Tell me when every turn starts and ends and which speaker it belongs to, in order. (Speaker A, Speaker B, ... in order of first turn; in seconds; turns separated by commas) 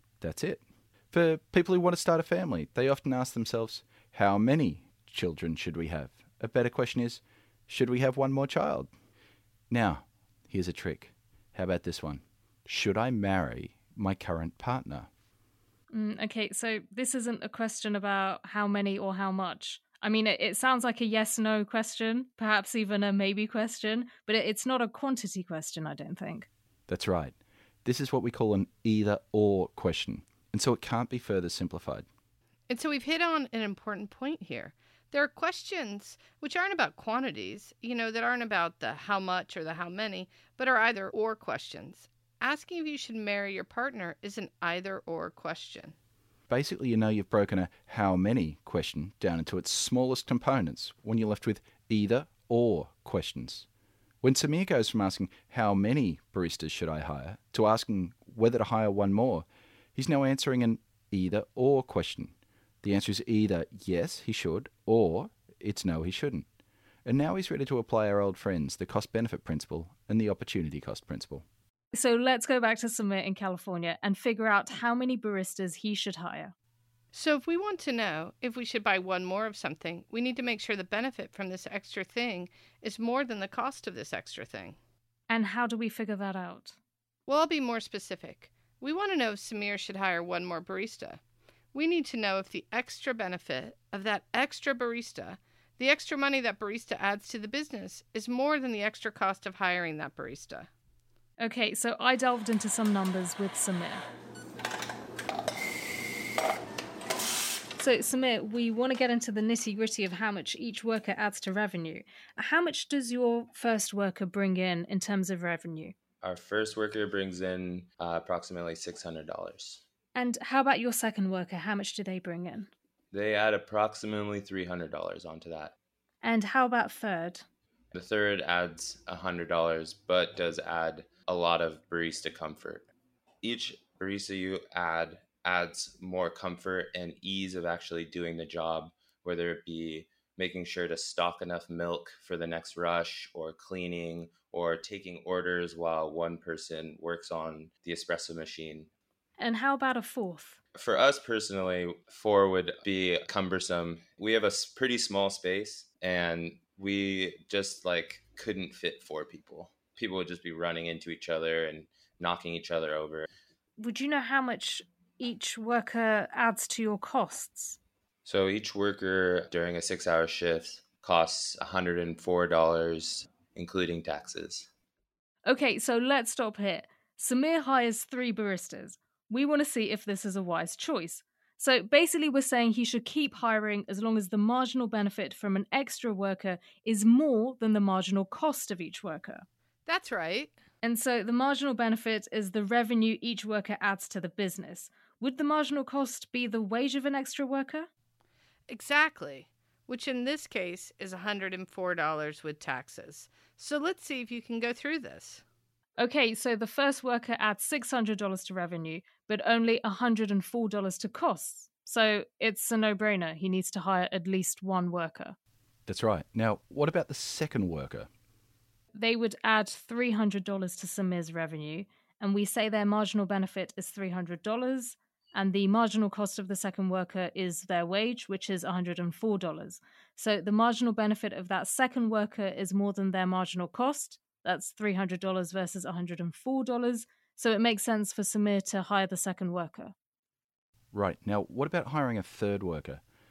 Speaker A: 0.2-8.9, Speaker A: 9.7-15.1, Speaker B: 15.9-26.5, Speaker A: 26.9-32.1, Speaker C: 32.7-46.0, Speaker A: 46.5-53.7, Speaker A: 54.2-66.5, Speaker A: 67.1-71.5, Speaker B: 71.9-76.5, Speaker C: 77.1-84.8, Speaker B: 85.3-86.8, Speaker C: 87.3-91.2, Speaker C: 91.7-100.7, Speaker B: 101.4-104.0, Speaker B: 107.8-116.0, Speaker D: 116.2-119.8, Speaker B: 120.2-122.7, Speaker D: 123.1-125.8, Speaker B: 126.2-127.5, Speaker D: 127.9-132.9, Speaker D: 133.4-148.9, Speaker B: 149.4-150.6, Speaker D: 150.8-163.3, Speaker B: 163.8-167.8, Speaker D: 168.2-174.7, Speaker B: 175.4-189.4, Speaker C: 189.9-190.6, Speaker B: 190.8-197.9, Speaker C: 198.7-205.4, Speaker B: 206.0-215.4, Speaker A: 215.9-218.1, Speaker B: 218.9-239.9, Speaker A: 240.9-243.0